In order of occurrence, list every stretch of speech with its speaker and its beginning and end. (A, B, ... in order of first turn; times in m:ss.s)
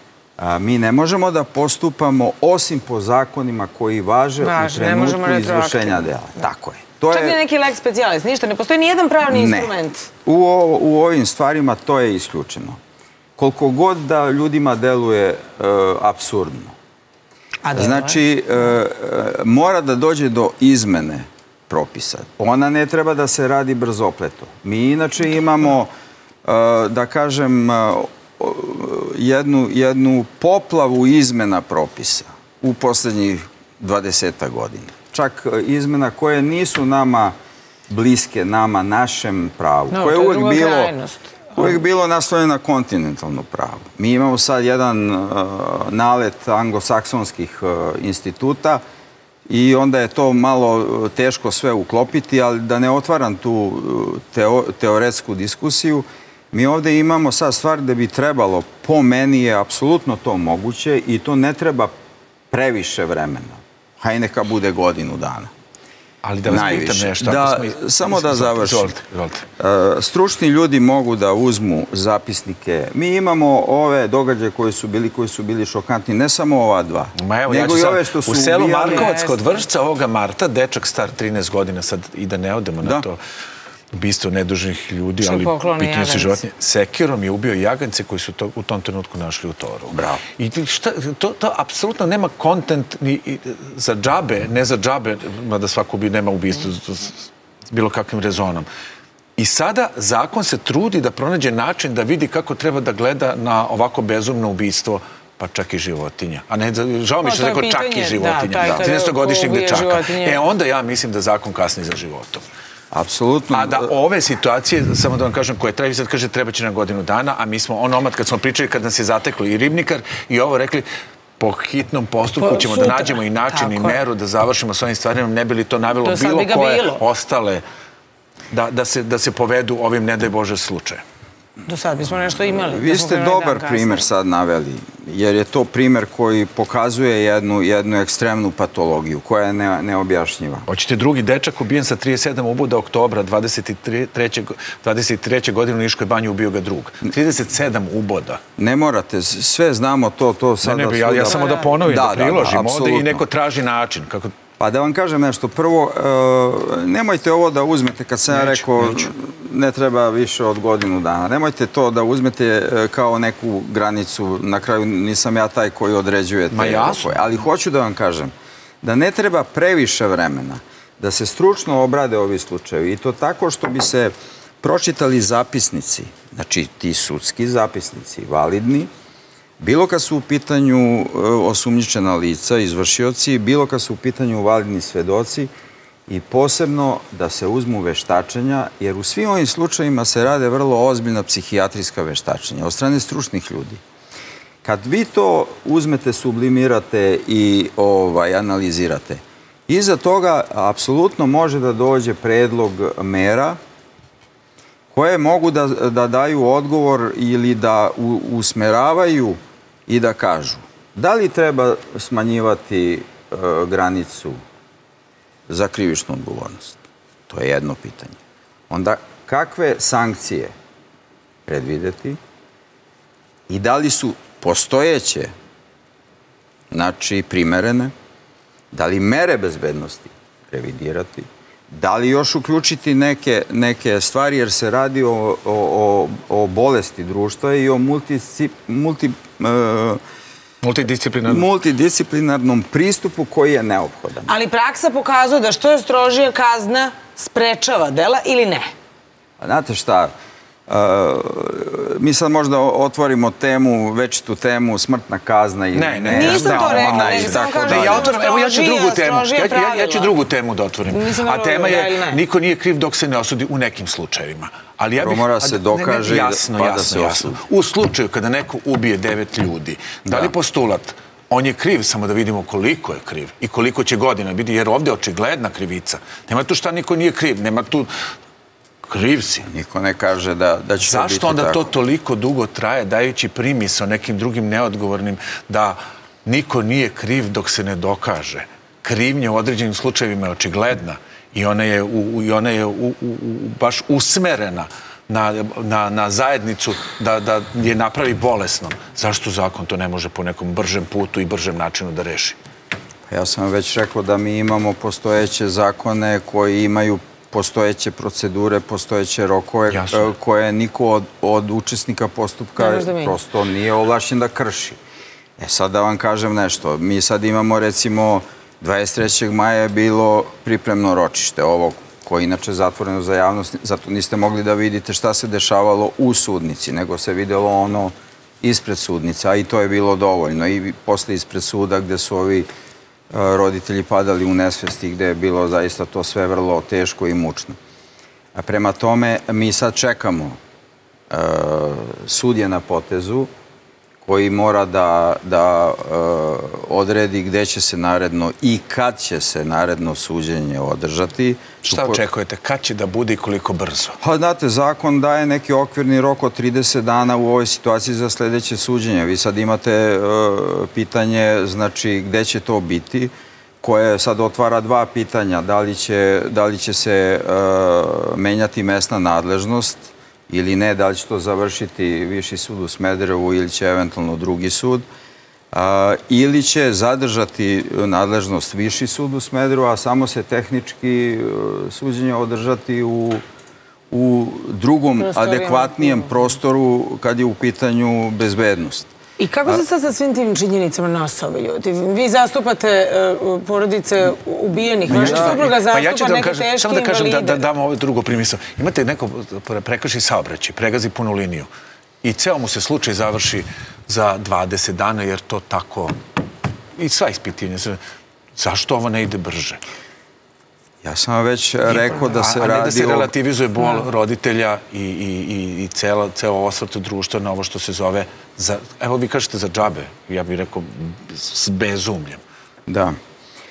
0:00.4-0:07.4 A
0:04.4-0:06.1 B
0:07.1-0:10.1 B
0:09.3-0:09.7 A
0:10.2-0:12.8 A
0:13.4-0:16.8 A
0:17.6-0:18.2 B
0:17.7-0:25.9 A
0:26.4-0:37.3 A
0:37.9-0:40.9 A
0:39.9-0:41.8 B
0:41.5-0:48.8 A
0:49.5-1:01.9 A
1:02.5-1:05.5 A
1:06.2-1:09.5 C
1:06.4-1:08.9 A
1:09.6-1:19.1 A
1:17.2-1:23.2 C
1:18.9-1:19.4 B
1:23.9-1:38.7 C
1:25.2-1:26.4 B
1:29.9-1:30.2 A
1:39.4-1:52.4 C
1:47.2-1:50.4 B
1:52.9-1:53.9 A
1:53.5-2:00.9 C
2:01.4-2:07.6 C
2:02.4-2:04.0 B
2:06.0-2:07.0 B
2:08.5-2:11.0 C
2:11.6-2:14.0 B
2:12.5-2:20.7 A
2:20.7-2:28.4 C
2:28.6-2:33.2 A
2:30.6-2:34.3 C
2:31.3-2:31.6 B
2:34.6-2:58.9 A
2:38.3-2:39.1 C
2:46.5-2:47.3 C
2:59.6-3:05.5 A
3:06.1-3:13.8 A
3:14.6-3:23.6 A
3:24.9-3:34.4 A
3:35.5-3:36.8 A
3:37.3-3:38.2 A
3:38.7-3:40.5 A
3:41.4-3:42.2 A
3:43.5-3:45.3 A
3:46.7-3:47.9 A
3:48.7-4:00.0 A
4:00.6-4:01.4 C
4:01.2-4:04.3 A
4:04.2-4:08.7 B
4:09.4-4:10.1 A
4:10.7-4:18.1 A
4:15.7-4:37.9 C
4:16.1-4:20.1 B
4:20.9-4:22.2 B
4:25.0-4:27.4 A
4:30.0-4:30.3 A
4:38.8-4:39.5 C
4:39.4-4:41.7 A
4:40.8-5:02.4 C
5:03.1-5:14.8 A
5:09.7-5:10.1 C
5:12.6-5:13.2 B
5:15.4-5:32.5 A
5:33.1-5:37.6 A
5:38.3-5:40.4 A
5:41.1-5:43.3 A
5:44.0-5:52.0 A
5:51.6-5:54.0 C
5:54.0-6:14.8 A
6:15.5-6:23.2 A
6:23.9-6:28.9 A
6:25.0-6:26.1 B
6:29.2-6:37.4 B
6:34.9-6:35.5 A
6:34.9-6:41.5 C
6:42.0-6:45.9 C
6:46.8-6:47.8 C
6:48.4-6:49.6 C
6:50.8-6:53.1 A
6:51.6-7:02.2 C
7:02.7-7:03.0 A